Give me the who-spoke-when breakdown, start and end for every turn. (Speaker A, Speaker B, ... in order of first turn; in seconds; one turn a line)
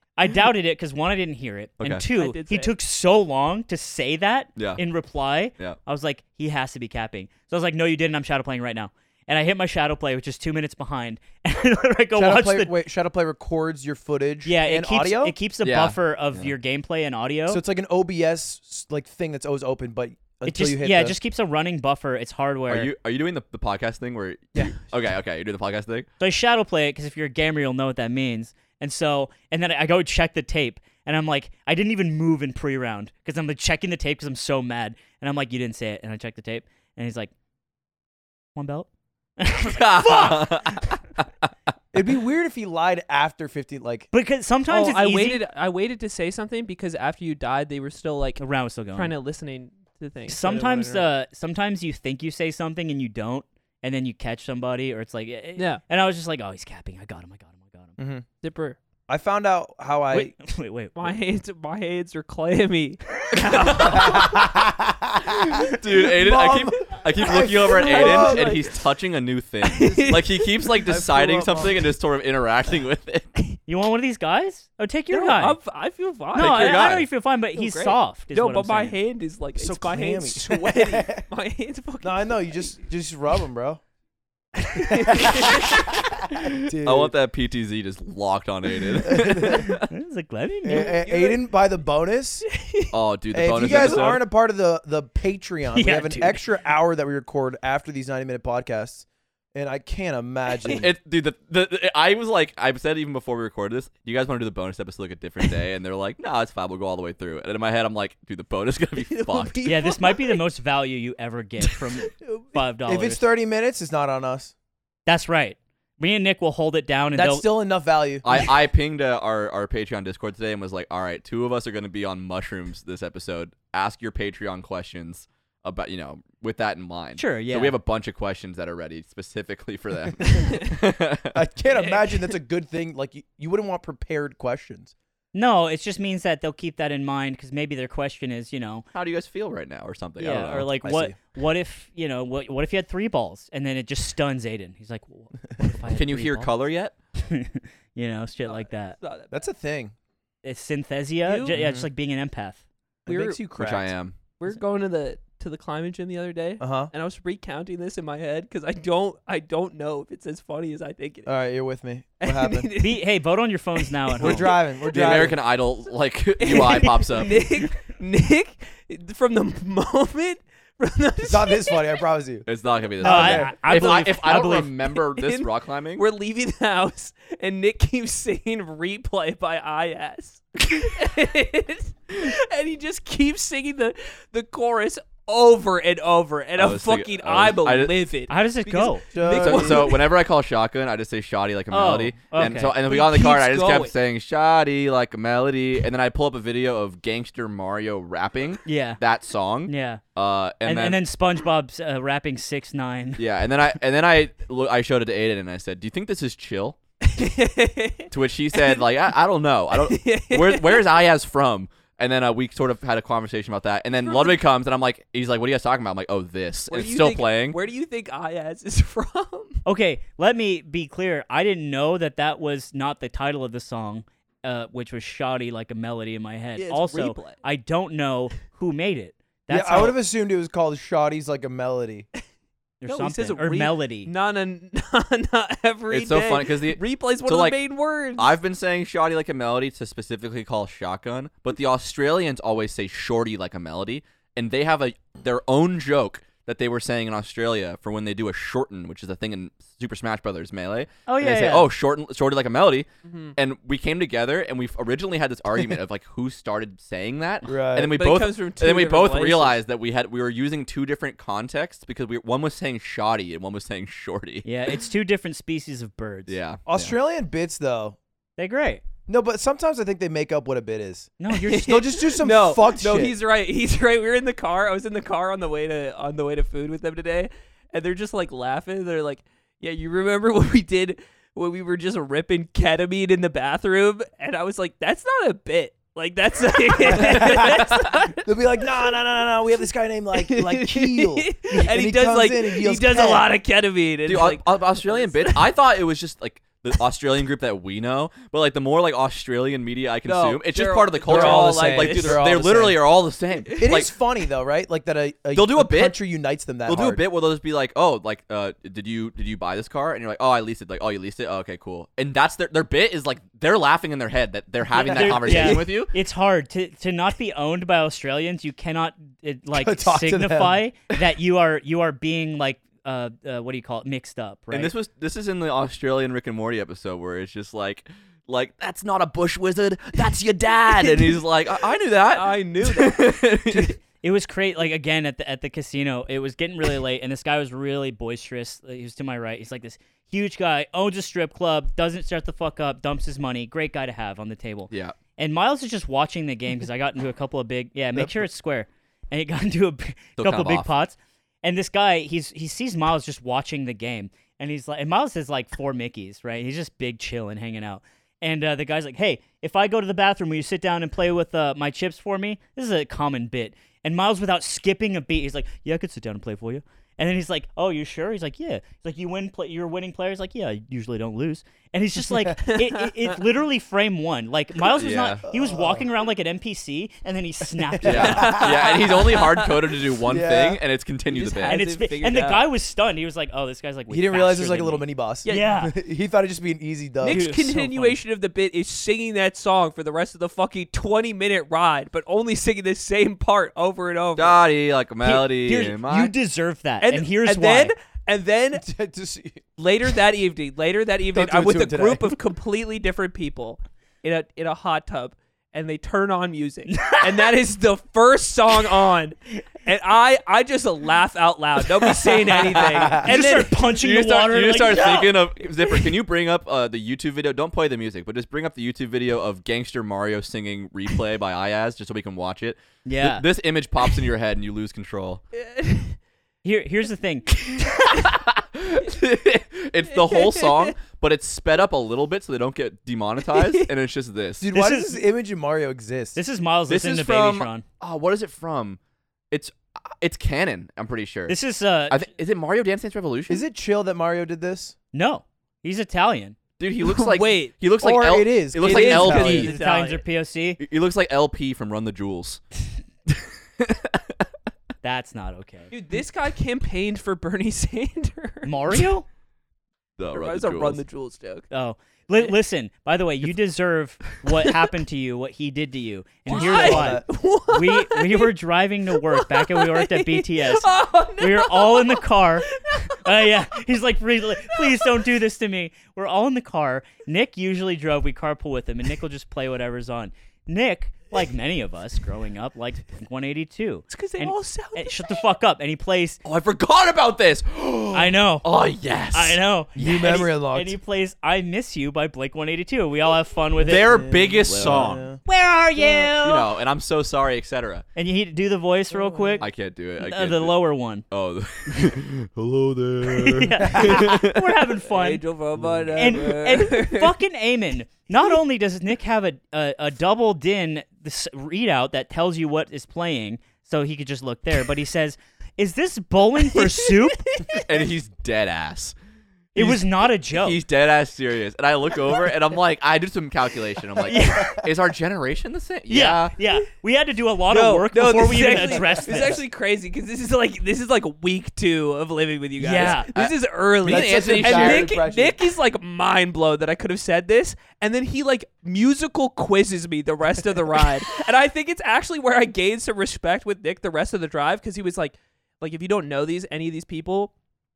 Speaker A: 0.2-12.8
Speaker B: 1.8-2.0
Speaker C: 2.1-2.7
Speaker D: 12.2-15.4
Speaker A: 14.4-17.6
Speaker B: 15.6-16.5
Speaker D: 17.5-21.1
Speaker A: 20.4-22.9
Speaker B: 22.7-26.1
Speaker A: 26.2-37.3
Speaker A: 38.5-38.9
Speaker A: 39.4-40.9
Speaker B: 39.5-41.0
Speaker D: 41.9-44.1
Speaker A: 44.1-45.4
Speaker C: 44.7-48.4
Speaker A: 48.4-49.1
Speaker C: 48.9-51.1
Speaker A: 50.3-58.0
Speaker C: 55.6-55.8
Speaker D: 58.0-58.3
Speaker C: 58.4-58.8
Speaker D: 59.1-60.3
Speaker A: 60.1-61.1
Speaker C: 61.0-64.5
Speaker B: 63.4-64.3
Speaker D: 63.8-68.6
Speaker B: 65.3-73.3
Speaker C: 67.7-68.6
Speaker C: 69.6-70.5
Speaker D: 69.8-70.2
Speaker D: 70.8-71.9
Speaker A: 73.7-75.6
Speaker C: 75.1-77.0
Speaker A: 76.3-79.0
Speaker B: 76.3-77.1
Speaker C: 77.5-82.7
Speaker D: 79.5-81.2
Speaker D: 82.0-83.8
Speaker C: 84.7-85.9
Speaker D: 85.0-87.1
Speaker B: 86.3-89.9
Speaker D: 89.0-89.8
Speaker A: 89.9-90.9
Speaker D: 90.6-92.5
Speaker C: 90.7-91.4
Speaker C: 92.5-92.9
Speaker B: 92.9-94.2
Speaker D: 93.3-100.9
Speaker C: 93.5-94.1
Speaker A: 95.7-96.4
Speaker B: 100.7-109.7
Speaker C: 109.0-110.4
Speaker A: 109.6-113.2
Speaker C: 112.1-112.5
Speaker D: 112.9-114.5
Speaker A: 115.0-117.5
Speaker D: 117.1-118.3
Speaker B: 118.2-131.4
Speaker A: 127.2-127.8
Speaker C: 130.4-130.7
Speaker D: 131.3-134.9
Speaker C: 131.7-132.3
Speaker A: 135.3-138.9
Speaker B: 138.9-140.7
Speaker A: 140.2-146.5
Speaker D: 140.8-141.2
Speaker B: 145.9-146.9
Speaker A: 147.2-149.0
Speaker C: 148.4-149.4
Speaker D: 149.3-149.9
Speaker A: 150.4-152.6
Speaker C: 151.2-151.6
Speaker D: 151.5-151.9
Speaker D: 153.1-153.9
Speaker C: 153.1-153.5
Speaker B: 153.6-154.2
Speaker C: 154.4-161.3
Speaker D: 156.6-156.9
Speaker D: 161.3-162.7
Speaker C: 162.2-163.1
Speaker A: 162.8-164.6
Speaker D: 164.2-165.4
Speaker B: 164.9-167.4
Speaker C: 166.4-172.0
Speaker D: 171.2-172.4
Speaker B: 172.4-176.0
Speaker D: 173.0-173.6
Speaker A: 173.0-174.7
Speaker C: 174.3-190.1
Speaker B: 186.6-187.9
Speaker A: 188.3-189.1
Speaker D: 189.1-189.9
Speaker B: 189.3-201.0
Speaker A: 191.7-192.7
Speaker C: 192.8-193.9
Speaker A: 198.6-199.0
Speaker A: 199.7-200.0
Speaker A: 200.6-203.2
Speaker B: 203.2-206.8
Speaker C: 207.0-208.9
Speaker B: 208.1-217.6
Speaker C: 209.7-211.0
Speaker C: 214.0-214.4
Speaker C: 216.7-219.6
Speaker A: 219.6-230.0
Speaker C: 226.6-227.4
Speaker D: 229.5-232.1
Speaker A: 232.8-234.1
Speaker C: 232.8-238.4
Speaker B: 235.9-237.6
Speaker B: 238.2-264.4
Speaker A: 251.1-251.7
Speaker C: 253.1-253.4
Speaker D: 257.4-258.0
Speaker C: 257.9-259.6
Speaker A: 264.4-266.4
Speaker B: 266.3-266.9
Speaker D: 266.7-268.0
Speaker A: 268.4-268.8
Speaker D: 269.1-273.1
Speaker A: 271.2-271.8
Speaker C: 271.3-288.2
Speaker D: 286.8-293.3
Speaker B: 286.9-288.0
Speaker C: 290.1-295.5
Speaker B: 294.1-303.9
Speaker C: 300.1-302.4
Speaker D: 301.1-302.8
Speaker C: 303.4-303.8
Speaker D: 303.6-307.0
Speaker B: 305.3-306.0
Speaker B: 306.6-315.9
Speaker A: 314.7-324.7
Speaker D: 314.8-315.6
Speaker D: 319.5-320.6
Speaker B: 324.5-333.8
Speaker C: 330.7-331.2
Speaker C: 332.1-333.1
Speaker A: 333.5-378.4
Speaker B: 344.7-344.9
Speaker B: 350.2-350.7
Speaker C: 372.4-373.2
Speaker B: 374.7-375.2
Speaker D: 375.3-375.8
Speaker D: 377.6-378.8
Speaker B: 377.8-381.6
Speaker C: 378.0-379.9
Speaker D: 380.0-380.6
Speaker C: 381.1-382.4
Speaker A: 381.4-385.7
Speaker D: 383.9-387.2
Speaker C: 387.0-394.4
Speaker A: 387.0-388.0
Speaker B: 394.1-396.1
Speaker A: 395.0-397.7
Speaker C: 396.8-398.6
Speaker D: 398.6-399.4
Speaker C: 399.6-413.6
Speaker D: 401.1-402.1
Speaker A: 406.7-407.3
Speaker B: 412.0-413.0
Speaker D: 412.8-413.1
Speaker A: 413.0-415.2
Speaker B: 413.7-425.2
Speaker A: 422.8-423.3
Speaker C: 425.3-426.0
Speaker A: 426.4-427.6
Speaker B: 427.9-434.5
Speaker C: 429.9-430.7
Speaker C: 433.3-433.6
Speaker D: 434.4-436.2
Speaker A: 434.5-435.0
Speaker A: 436.1-437.6
Speaker B: 436.7-438.8
Speaker B: 439.3-441.4
Speaker A: 441.3-442.1
Speaker B: 441.9-443.4
Speaker D: 443.3-444.7
Speaker A: 444.9-446.4
Speaker B: 446.6-449.5
Speaker C: 446.8-447.5
Speaker D: 447.8-449.5
Speaker C: 448.6-450.0
Speaker A: 449.1-450.6
Speaker B: 450.6-452.4
Speaker B: 453.1-454.1
Speaker A: 454.8-455.7
Speaker C: 455.7-458.5
Speaker A: 458.4-459.1
Speaker B: 460.0-460.8
Speaker C: 460.1-461.5
Speaker A: 461.5-486.2
Speaker C: 466.3-468.3
Speaker D: 466.3-467.1
Speaker C: 468.9-473.3
Speaker C: 474.5-474.9
Speaker C: 483.9-485.1
Speaker B: 486.2-489.4
Speaker A: 487.9-488.4
Speaker A: 489.1-496.5
Speaker D: 489.8-490.8
Speaker B: 493.6-495.0
Speaker D: 493.8-495.2
Speaker B: 496.2-497.9
Speaker A: 497.9-499.5
Speaker D: 498.9-499.4
Speaker B: 499.4-500.6
Speaker A: 500.0-501.1
Speaker B: 501.1-504.6
Speaker A: 503.0-505.2
Speaker D: 503.7-503.9
Speaker C: 504.9-507.1
Speaker A: 505.9-517.6
Speaker C: 516.5-517.8
Speaker B: 517.5-518.9
Speaker A: 519.5-520.6
Speaker B: 519.5-526.3
Speaker A: 524.0-524.6
Speaker A: 525.9-529.4
Speaker C: 527.5-547.3
Speaker A: 532.6-533.1
Speaker B: 532.8-535.0
Speaker D: 533.8-535.4